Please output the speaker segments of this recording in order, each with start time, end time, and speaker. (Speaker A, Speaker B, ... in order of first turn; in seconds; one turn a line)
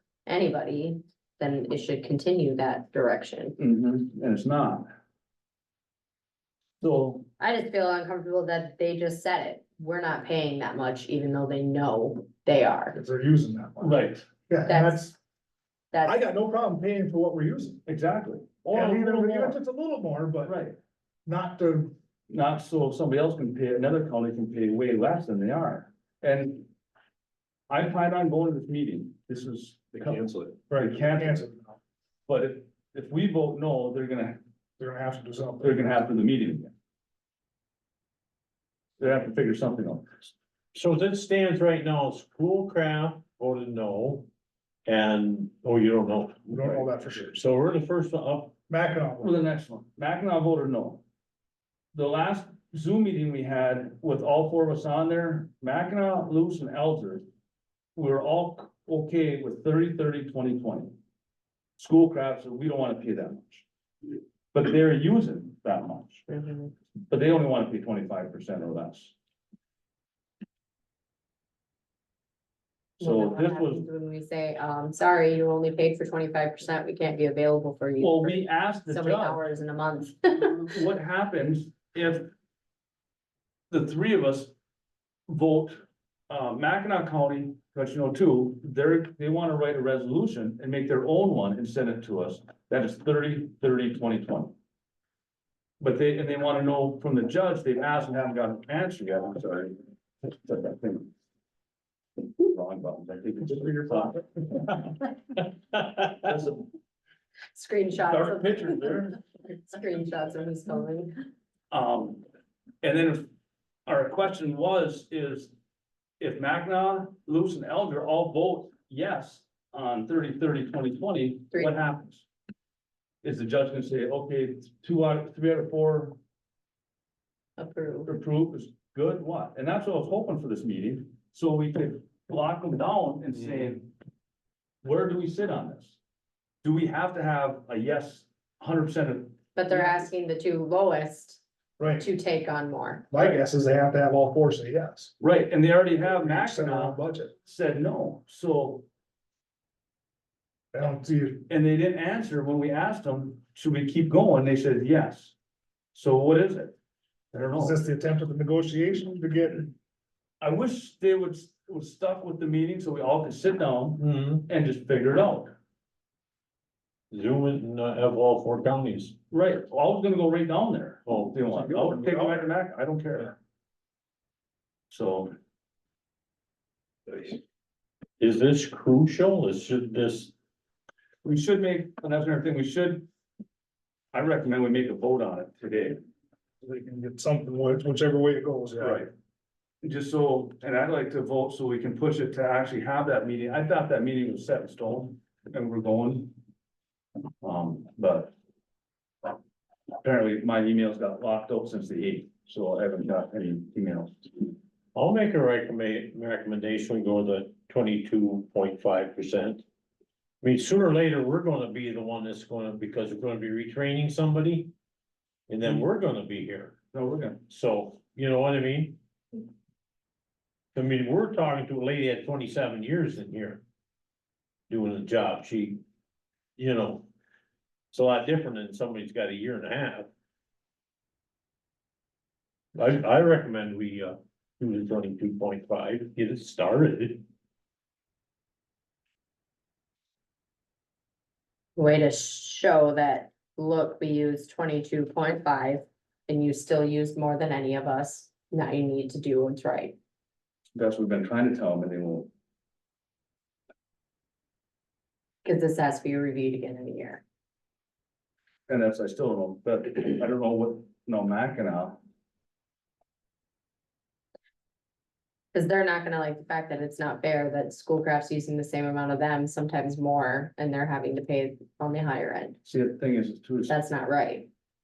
Speaker A: 0.2-3.6
Speaker B: 3.6-4.9
Speaker B: 6.8-7.2
Speaker A: 7.4-12.9
Speaker C: 12.9-13.9
Speaker B: 13.8-14.3
Speaker C: 14.5-15.2
Speaker A: 14.6-15.0
Speaker A: 15.9-16.2
Speaker C: 16.0-17.8
Speaker B: 17.9-19.6
Speaker C: 18.7-20.6
Speaker B: 20.4-20.8
Speaker C: 21.2-21.9
Speaker B: 22.3-26.7
Speaker B: 27.7-31.4
Speaker C: 30.7-31.8
Speaker B: 32.3-34.4
Speaker C: 34.8-35.9
Speaker B: 35.6-36.7
Speaker B: 39.0-40.3
Speaker D: 40.7-44.3
Speaker D: 44.9-46.6
Speaker C: 46.5-47.4
Speaker D: 47.3-48.5
Speaker C: 48.7-49.3
Speaker B: 49.2-51.0
Speaker B: 51.9-57.2
Speaker B: 58.0-61.0
Speaker B: 61.8-63.6
Speaker B: 64.5-66.2
Speaker A: 66.3-66.7
Speaker B: 67.1-69.1
Speaker A: 73.0-80.6
Speaker B: 73.0-73.8
Speaker B: 78.0-79.4
Speaker B: 80.3-82.3
Speaker B: 83.7-84.5
Speaker B: 85.3-94.5
Speaker B: 95.8-99.8
Speaker B: 100.4-101.1
Speaker B: 102.4-104.8
Speaker C: 103.5-104.1
Speaker B: 106.2-106.6
Speaker A: 107.5-111.3
Speaker B: 108.1-109.1
Speaker B: 111.7-112.2
Speaker B: 112.8-113.3
Speaker B: 113.9-115.5
Speaker B: 116.2-122.2
Speaker B: 123.2-126.2
Speaker A: 127.6-128.1
Speaker B: 128.1-133.9
Speaker B: 134.8-136.0
Speaker B: 136.6-140.0
Speaker A: 139.6-141.4
Speaker C: 141.8-142.1
Speaker A: 142.0-143.1
Speaker C: 143.1-145.1
Speaker B: 145.2-148.9
Speaker C: 146.0-147.3
Speaker C: 150.7-151.5
Speaker B: 151.5-155.4
Speaker B: 155.9-156.8
Speaker B: 157.3-157.8
Speaker C: 157.6-159.7
Speaker B: 160.4-165.6
Speaker D: 164.0-164.5
Speaker D: 167.1-169.2
Speaker B: 169.3-173.4
Speaker D: 171.1-171.5
Speaker C: 171.5-172.4
Speaker B: 174.9-175.3
Speaker D: 178.2-180.3
Speaker B: 181.2-183.1
Speaker B: 184.1-186.0
Speaker C: 186.6-189.1
Speaker B: 188.8-189.1
Speaker B: 189.8-196.3
Speaker B: 197.4-198.3
Speaker B: 200.0-204.2
Speaker D: 204.9-209.6
Speaker D: 210.4-214.7
Speaker D: 215.5-216.8
Speaker B: 216.9-217.4
Speaker D: 217.5-219.0
Speaker D: 220.7-223.6
Speaker D: 224.7-225.8
Speaker D: 226.6-227.1
Speaker D: 227.9-230.1
Speaker D: 232.8-237.2
Speaker A: 241.8-250.0
Speaker B: 250.8-252.3
Speaker A: 255.4-257.2
Speaker B: 258.7-262.0
Speaker A: 265.5-272.6
Speaker B: 272.6-273.8
Speaker A: 273.7-274.5